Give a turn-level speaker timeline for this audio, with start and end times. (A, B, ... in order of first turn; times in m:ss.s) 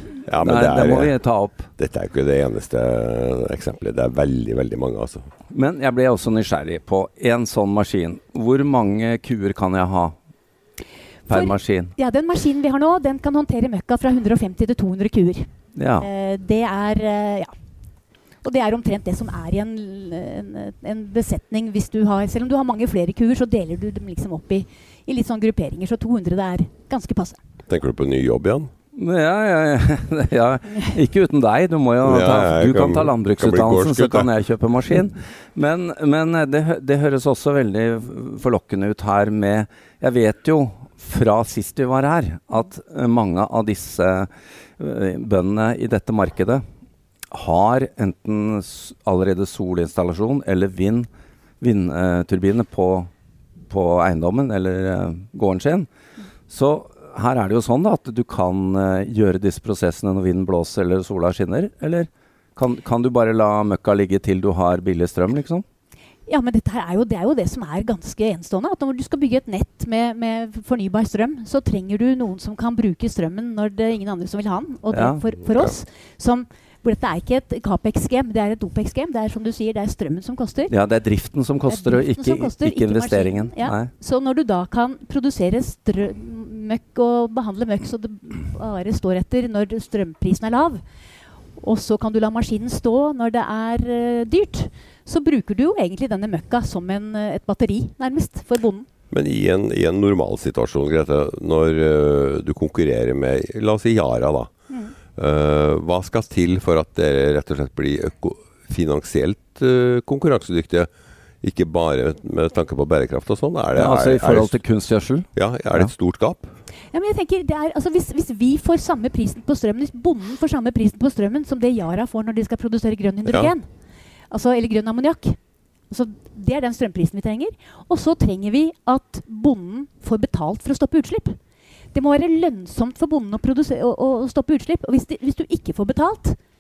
0:00.3-0:01.1 A
0:00.4-0:01.7 B
0:01.8-0:05.3 A
0:05.5-0:10.1 B
0:11.3-0:11.9 B
0:11.3-0:17.5 C
0:15.8-0:16.1 B
0:18.4-0:27.4 C
0:27.7-0:28.7 A
0:29.0-0:46.6 B
0:32.0-0:34.3 A
0:47.3-0:51.1 B
0:51.6-0:53.1 B
0:53.7-0:55.9 B
0:56.5-1:05.6 B
1:06.3-1:20.7 C
1:14.9-1:15.2 B
1:20.7-1:23.9 B
1:21.7-1:30.8 C
1:31.6-1:38.9 C
1:39.1-1:44.5 A
1:45.2-1:50.9 A
1:51.4-1:54.6 A
1:53.8-1:55.9 B
1:55.4-1:56.5 A
1:56.9-2:03.6 C
2:03.3-2:03.5 A
2:04.3-2:05.4 C
2:05.9-2:11.4 C
2:11.9-2:16.4 C